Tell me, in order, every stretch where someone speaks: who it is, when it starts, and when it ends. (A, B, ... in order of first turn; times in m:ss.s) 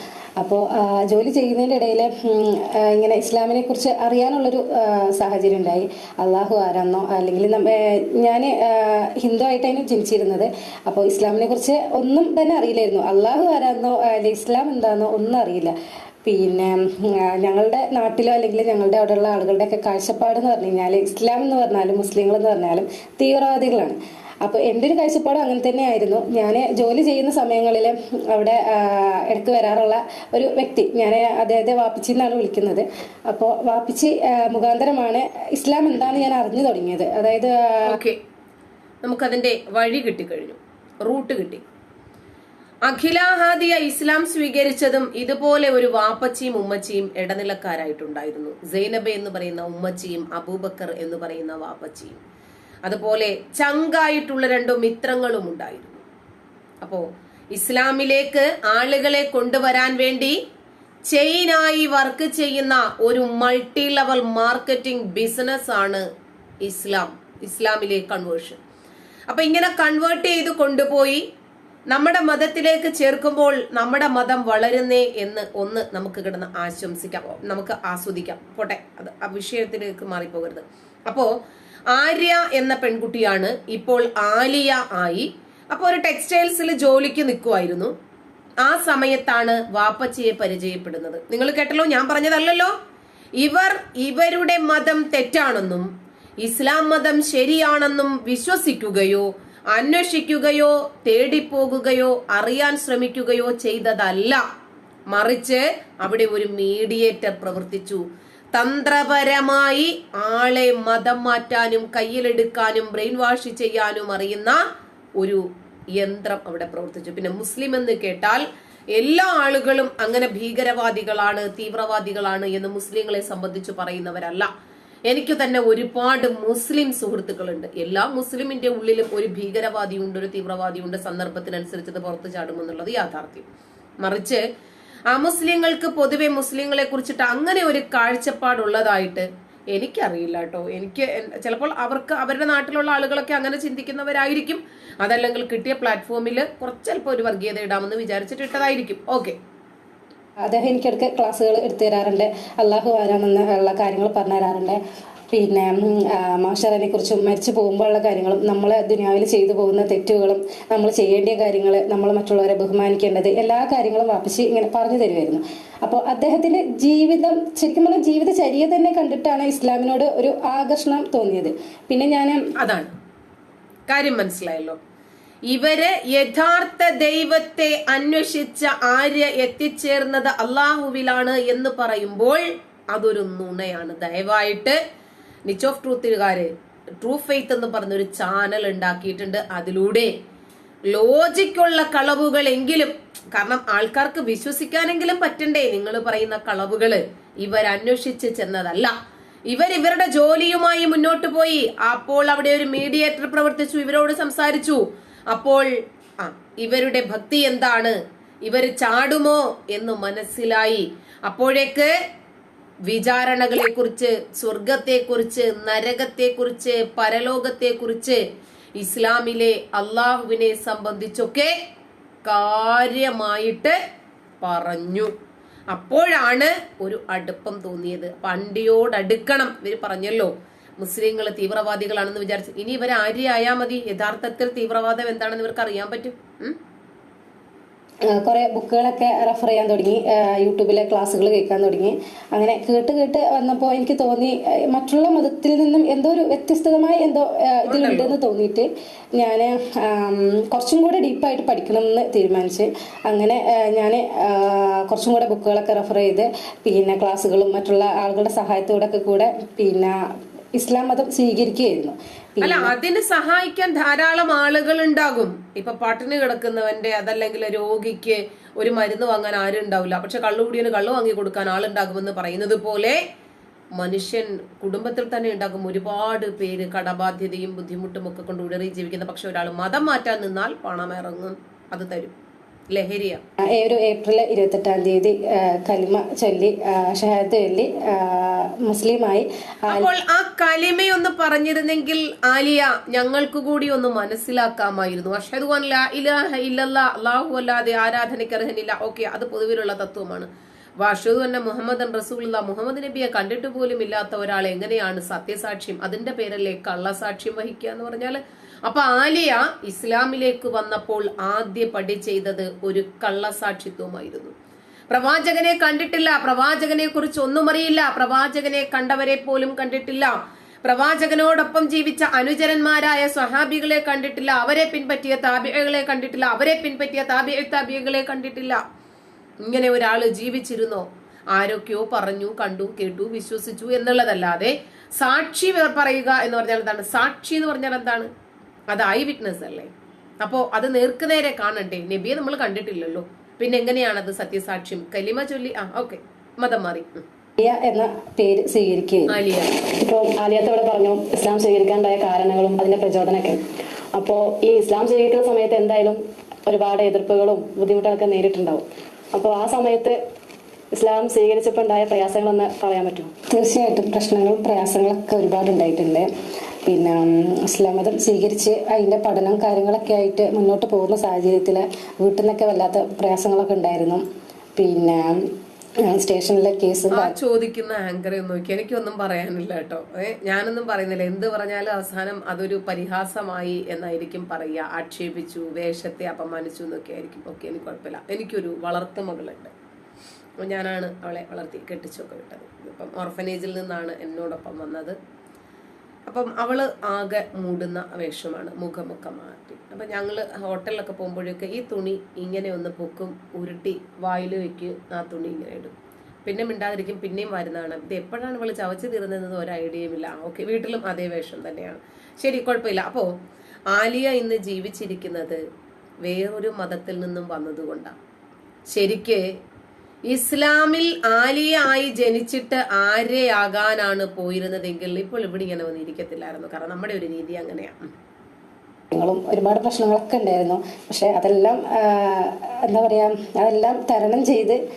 0:00.4-0:15.7 A
0:16.2-0:38.0 A
0:37.9-0:38.2 B
0:39.0-0:41.6 B
0:42.8-0:52.2 B
0:52.8-0:56.0 B
0:56.8-1:00.4 B
1:01.1-1:06.0 B
1:06.6-1:08.6 B
1:09.3-1:11.2 B
1:11.9-1:21.3 B
1:21.9-1:27.9 B
1:28.6-1:32.7 B
1:33.4-1:35.9 B
1:36.4-1:44.4 B
1:45.1-1:48.0 B
1:48.5-1:54.6 B
1:56.0-1:58.4 B
1:58.9-2:04.5 B
2:05.1-2:13.5 B
2:14.0-2:14.4 B
2:15.1-2:29.4 B
2:30.4-2:34.8 A
2:35.3-2:52.4 A
2:52.6-2:52.9 B
2:53.9-2:54.8 B
2:55.5-3:04.8 B
3:05.5-3:06.5 B
3:07.0-3:10.1 B
3:10.9-3:18.9 B
3:19.5-3:25.7 B
3:26.2-3:31.9 B
3:32.9-3:38.2 B
3:38.8-3:41.5 B
3:42.2-3:43.8 B
3:44.4-3:45.1 B
3:45.7-3:56.6 B
3:58.1-4:20.0 A
4:07.7-4:08.2 B
4:20.6-4:22.7 A
4:22.4-4:33.0 B
4:33.8-4:42.1 B
4:42.7-4:43.2 B
4:43.6-4:49.9 A
4:49.7-5:00.3 B
5:00.8-5:14.3 B
5:14.9-5:28.6 B
5:29.4-5:38.1 B
5:38.7-5:39.7 B
5:40.2-5:47.0 B
5:47.4-5:49.1 A
5:49.1-5:49.5 B
5:49.8-5:53.4 C
5:54.0-6:00.0 C
6:00.7-6:03.1 C
6:03.3-6:06.1 A
6:06.7-6:14.0 A
6:14.6-6:15.0 A
6:15.8-6:17.2 A
6:16.9-6:29.5 B
6:30.4-6:35.0 B
6:36.1-6:53.1 B
6:53.7-6:55.4 B
6:56.0-6:57.9 B
6:58.7-6:59.2 B
7:00.1-7:07.8 B
7:08.9-7:14.6 A